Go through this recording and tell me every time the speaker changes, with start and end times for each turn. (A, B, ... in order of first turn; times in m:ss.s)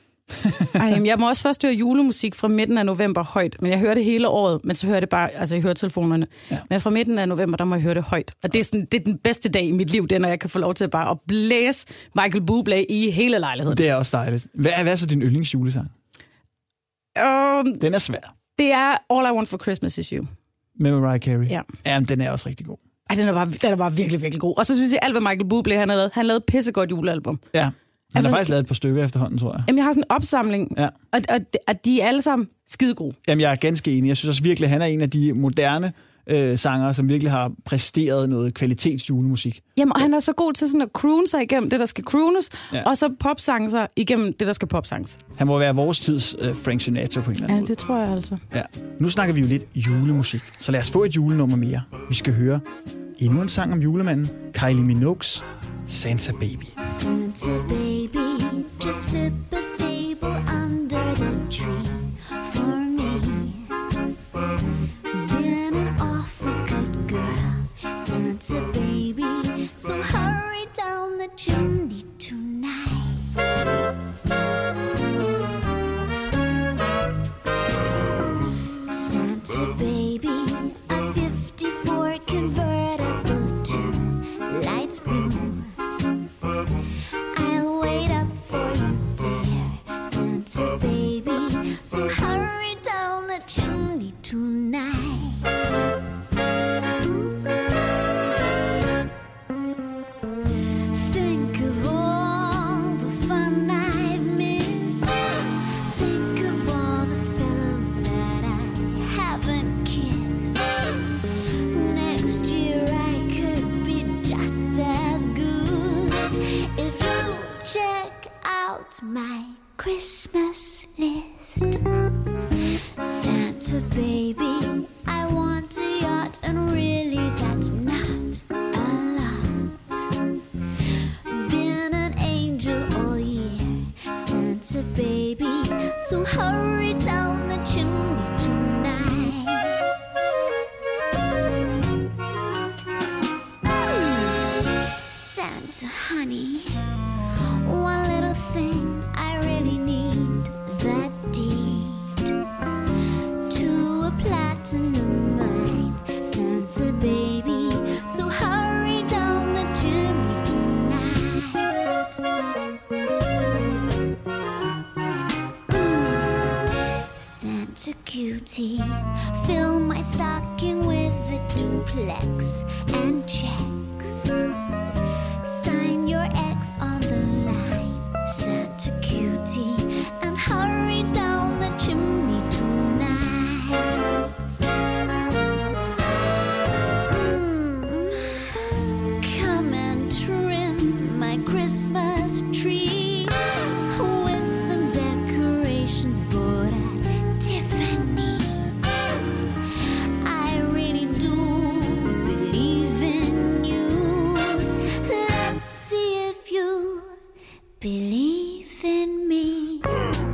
0:00.3-0:00.8 A
0:00.8-0:13.8 B
0:13.7-0:15.9 A
0:17.2-0:17.8 B
0:17.8-0:18.3 A
0:18.6-0:20.3 B
0:20.8-0:22.8 A
0:23.1-0:27.4 B
0:27.5-0:29.7 A
0:28.2-0:28.5 B
0:29.7-0:33.2 B
0:33.3-0:39.6 A
0:39.8-0:45.2 B
0:45.4-0:47.7 A
0:47.5-0:48.4 B
0:48.5-0:52.6 A
0:53.2-0:56.8 A
0:56.8-1:03.9 C
1:05.1-1:13.4 C
1:18.9-1:25.8 C
1:27.3-1:35.6 C
1:40.7-1:50.8 C
1:51.5-2:02.1 C
2:03.0-2:10.1 C
2:11.3-2:19.9 C
2:23.6-2:26.9 C
2:27.6-2:32.4 C
2:33.5-2:42.0 C
2:45.7-2:54.4 C
2:55.4-3:04.3 C
3:07.1-3:19.1 C
3:19.8-3:27.2 C
3:27.8-3:30.1 C